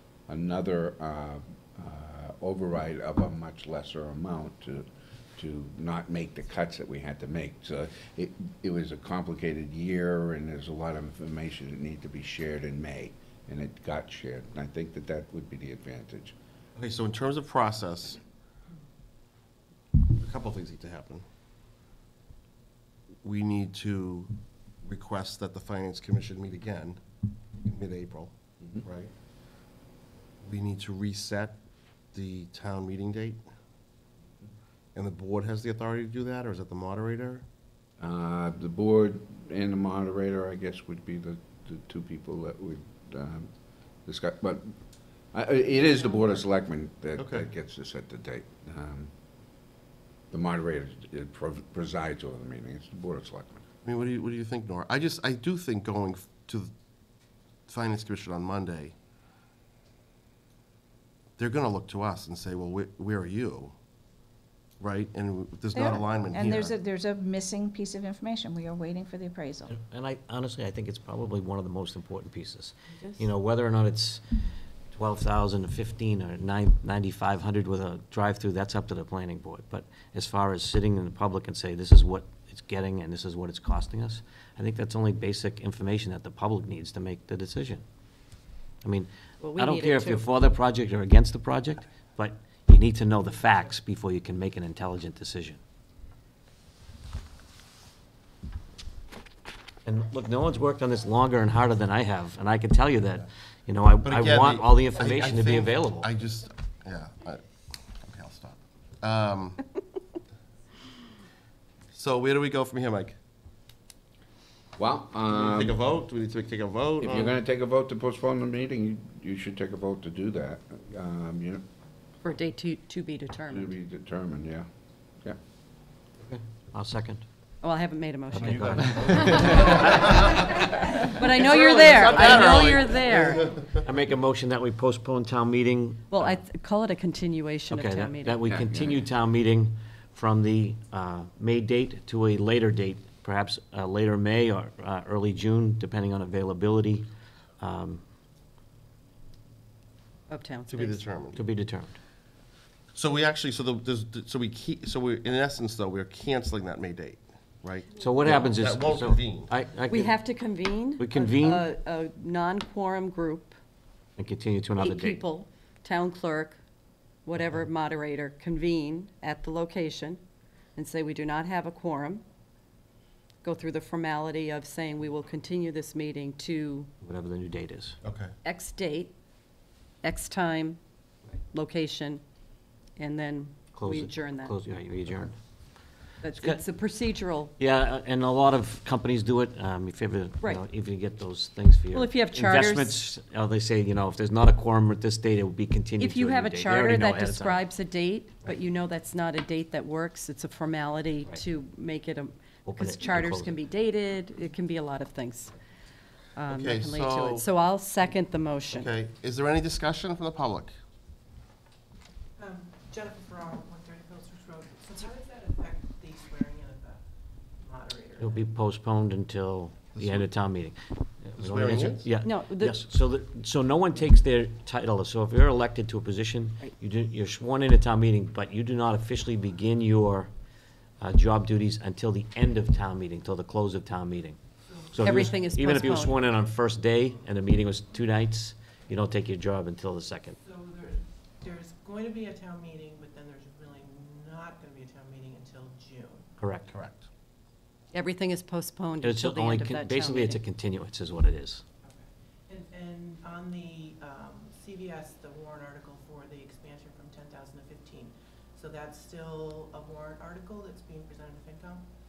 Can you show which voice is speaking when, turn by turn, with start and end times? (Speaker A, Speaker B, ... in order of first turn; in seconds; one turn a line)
Speaker A: 0.3-16.4
Speaker B: 16.8-18.2
Speaker B: 20.0-21.2
Speaker B: 23.2-27.0
Speaker B: 27.6-29.1
Speaker B: 30.4-31.6
Speaker B: 32.1-33.4
Speaker B: 35.0-37.5
Speaker A: 38.0-43.5
Speaker A: 44.1-44.8
Speaker A: 45.3-49.1
Speaker B: 47.2-47.5
Speaker A: 50.3-53.6
Speaker B: 53.8-56.7
Speaker B: 57.7-58.9
Speaker B: 61.4-63.8
Speaker B: 64.8-66.7
Speaker C: 66.3-69.8
Speaker D: 69.7-74.2
Speaker D: 74.9-87.8
Speaker D: 88.8-95.6
Speaker E: 89.4-90.3
Speaker D: 99.9-106.1
Speaker B: 104.0-107.5
Speaker B: 108.0-109.6
Speaker B: 111.9-113.2
Speaker A: 114.8-115.9
Speaker B: 115.3-117.4
Speaker A: 117.0-121.6
Speaker E: 122.2-123.7
Speaker A: 123.5-124.7
Speaker D: 126.2-127.2
Speaker E: 127.6-129.9
Speaker D: 128.3-130.5
Speaker B: 128.7-130.3
Speaker E: 130.9-133.5
Speaker B: 131.3-133.7
Speaker D: 132.2-132.7
Speaker D: 133.8-136.4
Speaker E: 136.1-138.4
Speaker D: 137.7-147.1
Speaker A: 138.5-139.0
Speaker D: 147.6-148.0
Speaker E: 150.3-151.0
Speaker B: 150.7-151.4
Speaker D: 151.3-152.0
Speaker B: 152.9-159.5
Speaker D: 158.0-160.2
Speaker E: 159.9-163.6
Speaker D: 161.0-161.7
Speaker D: 164.2-165.2
Speaker E: 164.8-166.6
Speaker E: 167.2-170.2
Speaker E: 170.8-172.2
Speaker E: 173.4-176.9
Speaker D: 177.0-178.0
Speaker B: 178.0-178.3
Speaker E: 178.4-179.1
Speaker E: 180.0-180.8
Speaker E: 181.5-182.2
Speaker E: 183.0-184.6
Speaker D: 183.8-185.4
Speaker E: 186.2-187.6
Speaker D: 186.3-186.6
Speaker D: 187.6-197.7
Speaker E: 191.9-193.1
Speaker E: 196.0-205.6
Speaker D: 202.7-203.6
Speaker E: 206.4-208.9
Speaker B: 206.5-207.4
Speaker B: 208.7-210.7
Speaker F: 212.4-217.0
Speaker F: 217.6-218.4
Speaker D: 218.2-230.3
Speaker B: 219.9-220.3
Speaker B: 221.3-222.1
Speaker E: 222.2-222.8
Speaker D: 231.0-234.4
Speaker D: 234.9-240.4
Speaker F: 234.9-235.3
Speaker E: 235.0-236.2
Speaker F: 240.4-246.3
Speaker D: 246.4-246.7
Speaker B: 246.7-247.1
Speaker E: 247.9-250.4
Speaker D: 249.0-251.6
Speaker F: 251.9-261.8